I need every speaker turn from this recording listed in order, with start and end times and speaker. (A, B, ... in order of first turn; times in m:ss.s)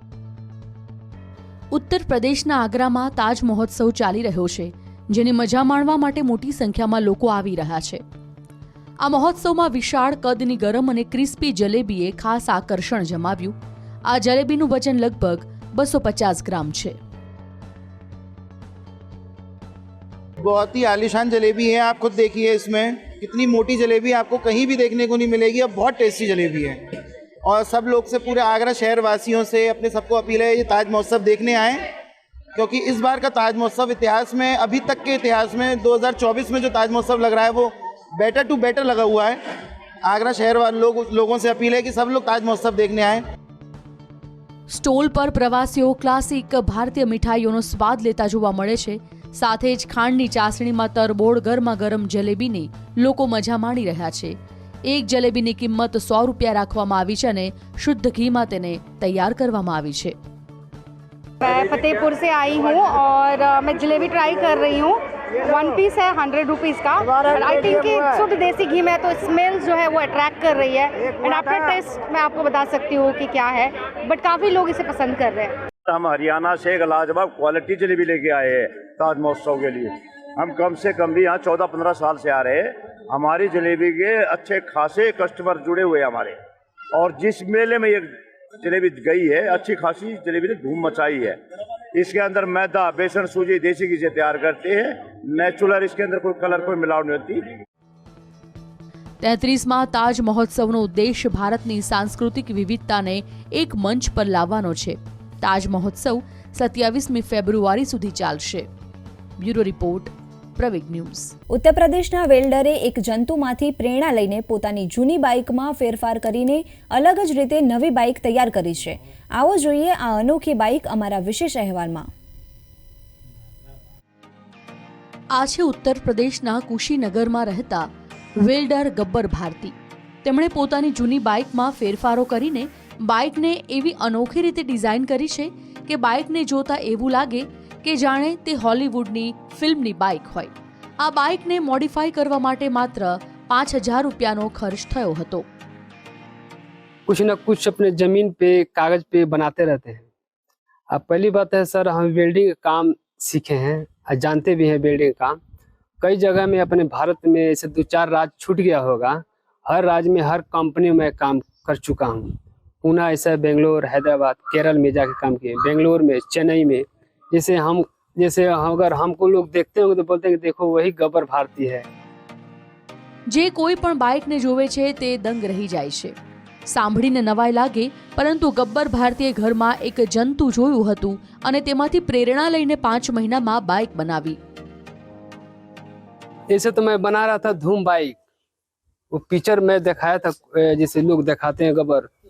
0:01.7-0:08.0 A
0:09.0-0:17.0 A
0:20.4-0:26.8 B
0:27.4-0:31.9 B
0:32.5-0:39.4 B
0:40.0-0:43.2 B
0:44.7-1:00.2 A
1:01.4-1:15.6 C
1:15.8-1:26.4 D
1:26.9-1:31.4 D
1:31.9-1:37.4 D
1:39.2-1:48.7 A
1:49.4-1:51.3 A
1:51.5-2:02.1 E
2:05.3-2:09.7 A
2:10.2-2:25.4 A
2:27.1-2:30.1 F
2:30.9-2:35.4 F
2:36.0-2:51.8 F
2:53.3-2:56.1 A
2:56.7-3:04.4 A
3:06.5-3:08.2 F
3:09.1-3:12.1 F